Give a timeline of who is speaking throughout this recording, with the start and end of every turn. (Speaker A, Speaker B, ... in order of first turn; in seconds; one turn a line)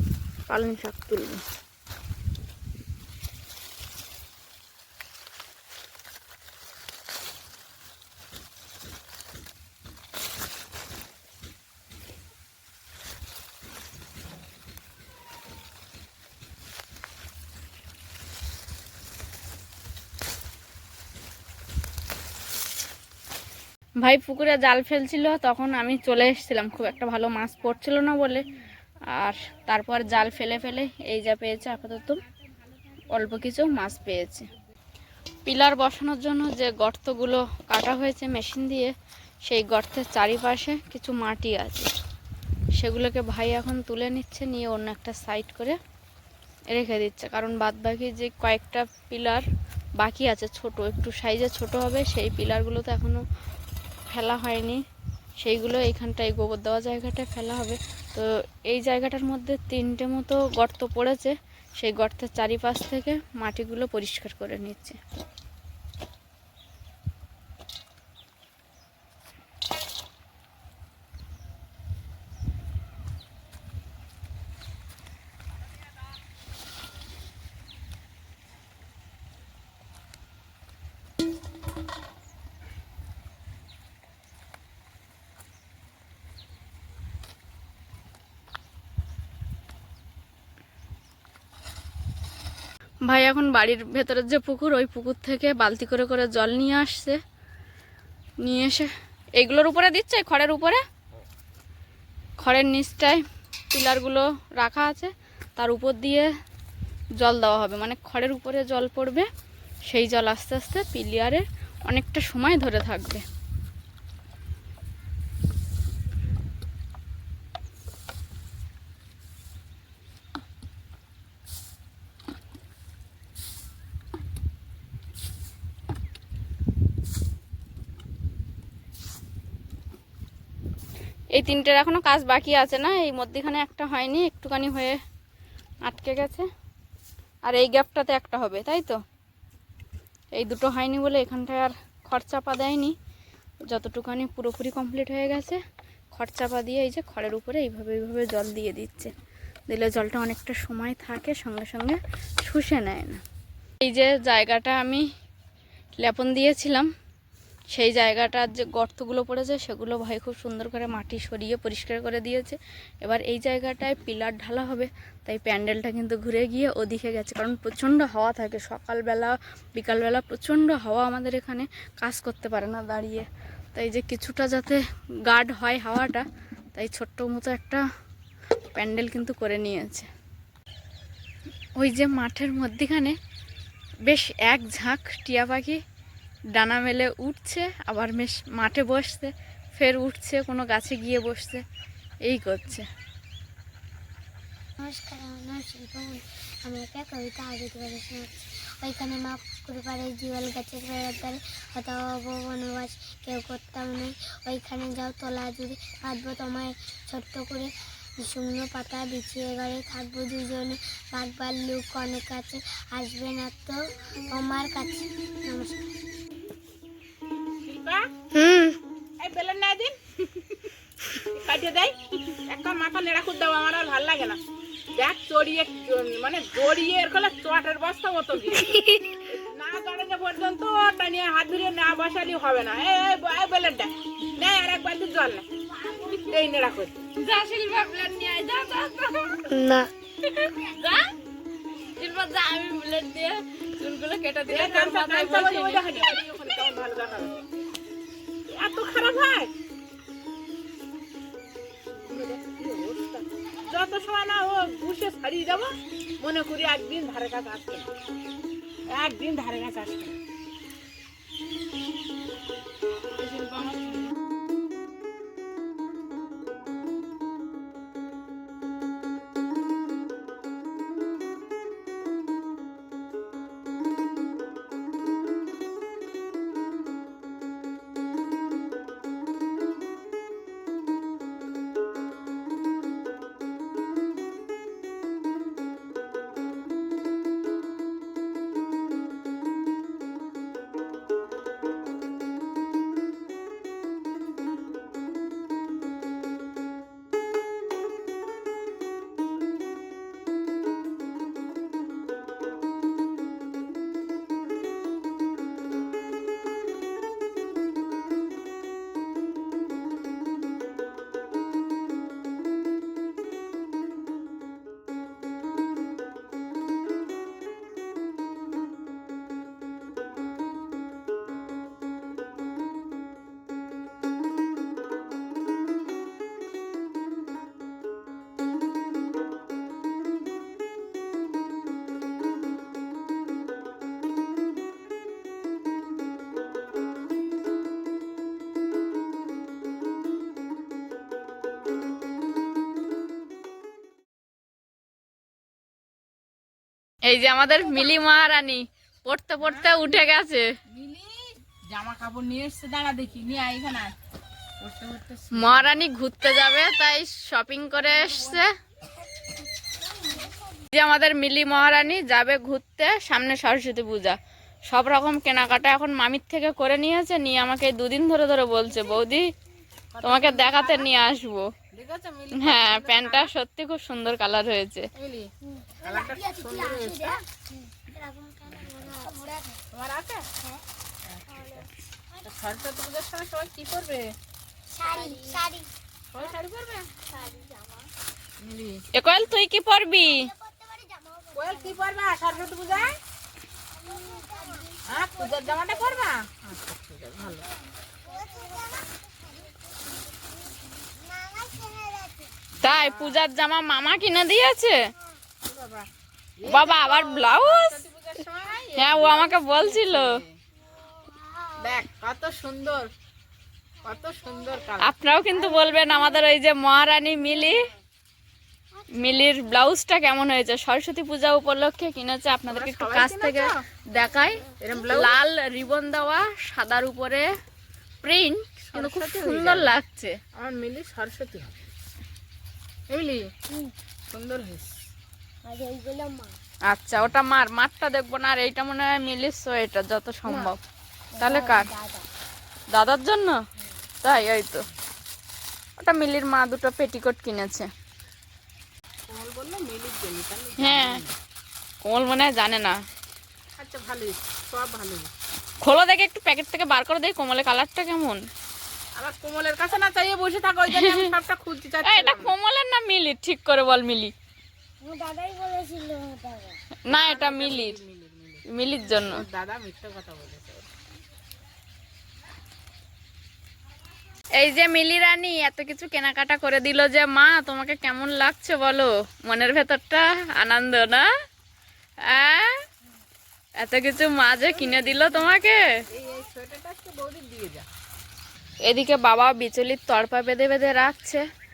Speaker A: 0.5-1.4
Speaker A: 24.0-28.4
Speaker A: 29.1-32.2
Speaker A: 33.1-34.5
Speaker A: 35.5-38.9
Speaker A: 39.5-41.9
Speaker A: 42.8-45.8
Speaker A: 46.7-49.5
Speaker A: 50.0-53.2
Speaker A: 54.1-54.8
Speaker A: 55.4-65.0
Speaker A: 93.1-97.2
Speaker A: 98.4-100.8
Speaker A: 102.4-106.3
Speaker A: 107.2-109.3
Speaker A: 109.9-113.2
Speaker A: 131.3-135.0
Speaker A: 135.8-136.5
Speaker A: 137.4-139.0
Speaker A: 140.3-142.9
Speaker A: 143.7-145.6
Speaker A: 146.2-149.1
Speaker A: 149.7-153.2
Speaker A: 153.8-155.1
Speaker A: 156.0-156.9
Speaker A: 157.7-177.8
Speaker A: 178.7-180.1
Speaker A: 181.8-183.2
Speaker A: 184.1-185.8
Speaker A: 186.6-191.6
Speaker A: 192.2-192.9
Speaker B: 194.8-198.3
Speaker B: 198.8-213.8
Speaker B: 214.3-215.9
Speaker C: 217.7-218.1
Speaker C: 219.2-224.4
Speaker C: 224.9-235.5
Speaker C: 236.0-237.0
Speaker A: 237.2-239.6
Speaker B: 239.5-239.9
Speaker A: 240.3-241.1
Speaker A: 241.9-246.2
Speaker C: 244.5-247.3
Speaker C: 248.5-249.5
Speaker C: 251.9-257.9
Speaker C: 258.9-260.2
Speaker C: 263.1-264.1
Speaker A: 347.1-350.5
Speaker C: 349.4-349.7
Speaker C: 350.7-353.9
Speaker C: 354.6-355.7
Speaker A: 355.3-358.5
Speaker C: 357.8-358.4
Speaker A: 360.7-369.3
Speaker C: 369.9-371.0
Speaker A: 370.0-371.5
Speaker C: 371.7-373.3
Speaker A: 372.4-374.9
Speaker C: 375.0-375.3
Speaker B: 375.5-379.6
Speaker C: 375.8-377.2
Speaker C: 379.7-380.3
Speaker C: 381.1-381.7
Speaker B: 381.3-382.7
Speaker C: 382.2-384.1
Speaker B: 384.7-385.7
Speaker C: 386.1-386.9
Speaker B: 387.1-387.8
Speaker C: 388.4-388.8
Speaker A: 388.9-390.3
Speaker B: 390.0-391.9
Speaker C: 391.3-393.0
Speaker B: 393.7-396.1
Speaker C: 394.9-397.5
Speaker B: 398.0-400.3
Speaker B: 400.8-402.3
Speaker A: 402.6-404.8
Speaker C: 402.6-403.2
Speaker C: 405.4-405.9
Speaker C: 406.4-410.4
Speaker A: 406.5-407.8
Speaker A: 408.8-410.2
Speaker B: 410.7-411.8
Speaker C: 411.6-412.9
Speaker C: 413.8-414.9
Speaker A: 414.8-417.7
Speaker B: 415.3-416.2
Speaker B: 418.8-419.3
Speaker A: 418.9-427.3
Speaker C: 422.5-423.6
Speaker C: 424.6-425.2
Speaker A: 428.0-430.2
Speaker C: 428.7-429.7
Speaker C: 430.4-431.6
Speaker C: 432.9-433.3
Speaker C: 434.1-434.8
Speaker B: 435.4-436.4
Speaker A: 436.7-440.6
Speaker B: 441.2-442.1
Speaker A: 441.2-441.7
Speaker A: 442.7-443.4
Speaker A: 444.0-444.7
Speaker A: 445.8-447.7
Speaker C: 449.1-451.1
Speaker A: 450.6-451.0
Speaker A: 451.8-452.8
Speaker C: 453.6-455.1
Speaker A: 455.6-458.2
Speaker C: 458.9-462.4
Speaker A: 460.7-461.1
Speaker A: 461.8-464.1
Speaker B: 464.8-466.6
Speaker A: 466.9-467.8
Speaker C: 466.9-470.7
Speaker A: 468.5-469.3
Speaker A: 474.3-481.1
Speaker A: 482.1-482.6
Speaker A: 483.6-485.6
Speaker C: 484.4-485.3
Speaker C: 485.9-487.7
Speaker A: 488.7-491.2